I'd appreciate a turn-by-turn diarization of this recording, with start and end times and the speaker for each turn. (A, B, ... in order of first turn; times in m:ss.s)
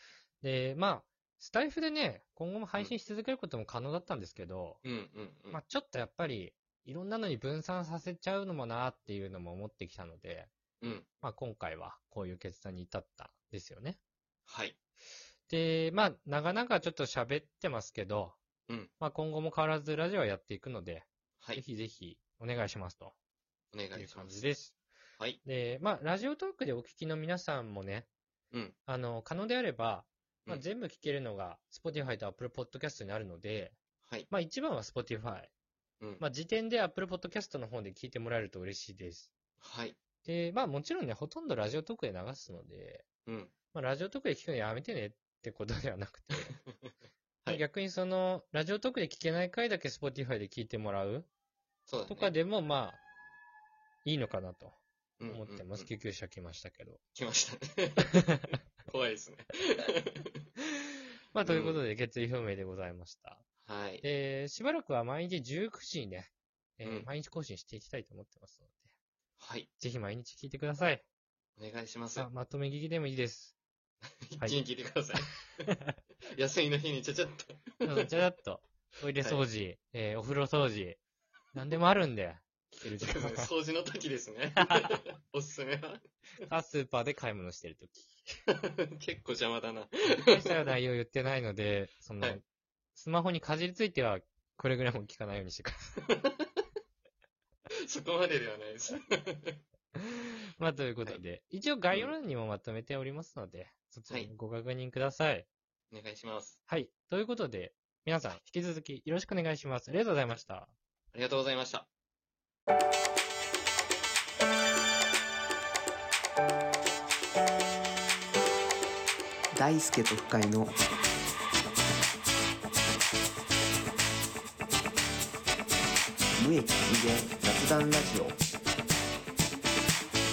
0:00.4-0:04.8 A
0:04.8-0:05.6 B
0:05.5-0:10.5 A
0:10.8-0:11.1 B
0:11.2-0:14.0 A
0:14.5-0:14.8 B
0:15.5-0:18.4 A
0:19.0-0:23.1 A
0:23.7-0:24.4 B
0:24.0-0:24.8 A
0:25.4-0:28.1 A
0:28.9-0:33.8 A
0:34.0-0:34.3 B
0:34.3-0:35.5 A
0:36.2-0:39.3 A
0:39.6-0:40.0 B
0:40.2-0:43.0 A
0:43.3-0:43.5 B
0:43.7-0:46.6 A
0:46.3-0:46.9 B
0:47.5-0:51.3 A
0:51.9-0:52.3 B
0:52.1-0:53.0 A
0:54.0-0:57.0 A
0:55.2-0:55.9 B
0:57.2-1:00.3 B
1:01.3-1:03.4 A
1:01.4-1:01.8 B
1:03.6-1:04.0 B
1:04.0-1:08.9 A
1:09.4-1:09.7 B
1:09.8-1:11.0 A
1:11.6-1:12.3 B
1:12.2-1:13.6 A
1:14.3-1:15.7 B
1:16.3-1:18.1 B
1:17.8-1:21.0 A
1:21.5-1:23.5 A
1:23.0-1:26.0 B
1:24.6-1:24.9 A
1:26.4-1:28.3 A
1:28.5-1:30.7 B
1:30.1-1:32.4 A
1:33.0-1:36.0 A
1:36.1-1:36.4 B
1:37.9-1:39.6 B
1:40.0-1:45.5 A
1:45.9-1:46.6 B
1:46.7-1:50.7 A
1:51.1-1:51.9 B
1:59.5-2:00.8 C
2:06.4-2:08.4 C